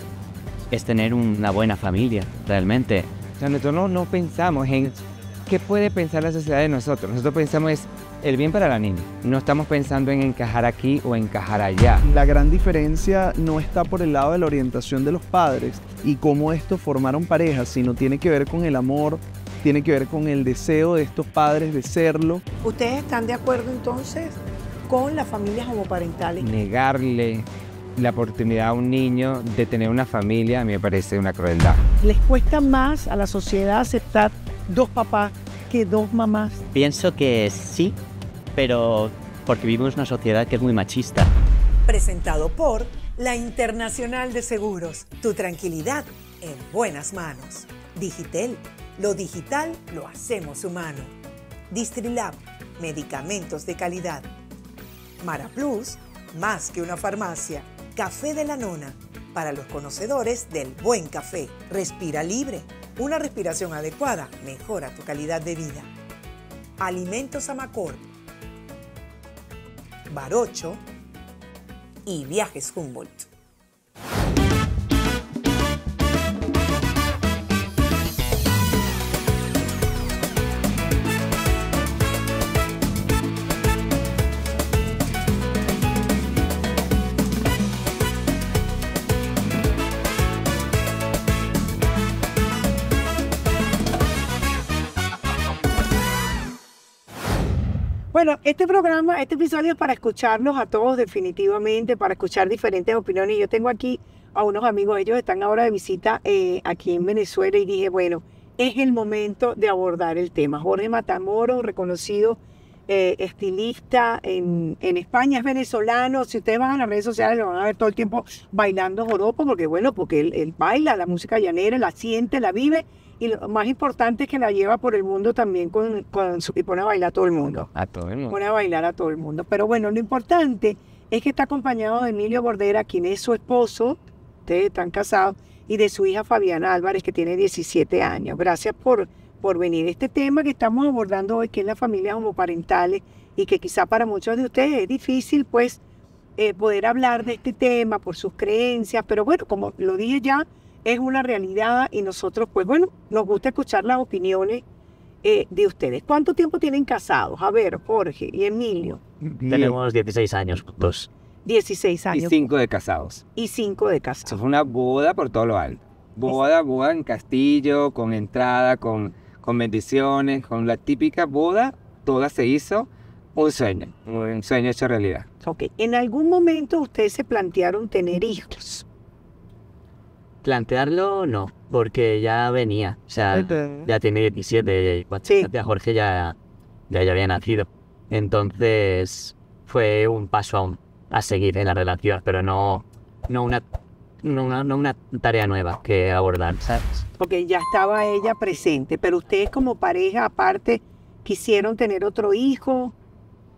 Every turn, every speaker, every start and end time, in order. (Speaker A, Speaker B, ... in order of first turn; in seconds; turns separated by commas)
Speaker A: 0.7-3.1, Speaker B: 3.4-12.0, Speaker C: 12.0-22.4, Speaker D: 22.6-26.5, Speaker B: 26.4-31.8, Speaker D: 32.0-36.6, Speaker A: 36.7-38.0, Speaker A: 38.5-41.3, Speaker E: 41.9-51.1, Speaker E: 51.7-54.3, Speaker E: 55.2-65.9, Speaker E: 66.8-68.1, Speaker E: 70.1-70.8, Speaker E: 72.0-73.3, Speaker D: 98.1-127.7, Speaker B: 127.7-128.3, Speaker D: 128.3-145.8, Speaker D: 146.4-154.6, Speaker D: 155.2-159.0, Speaker B: 159.2-159.7, Speaker A: 159.4-161.1, Speaker D: 161.4-162.4, Speaker B: 162.1-163.2, Speaker D: 163.3-164.4, Speaker B: 164.2-175.3, Speaker D: 175.4-178.8, Speaker A: 180.4-186.3, Speaker D: 185.2-185.5, Speaker A: 186.9-193.6, Speaker A: 194.2-197.0, Speaker D: 197.2-202.9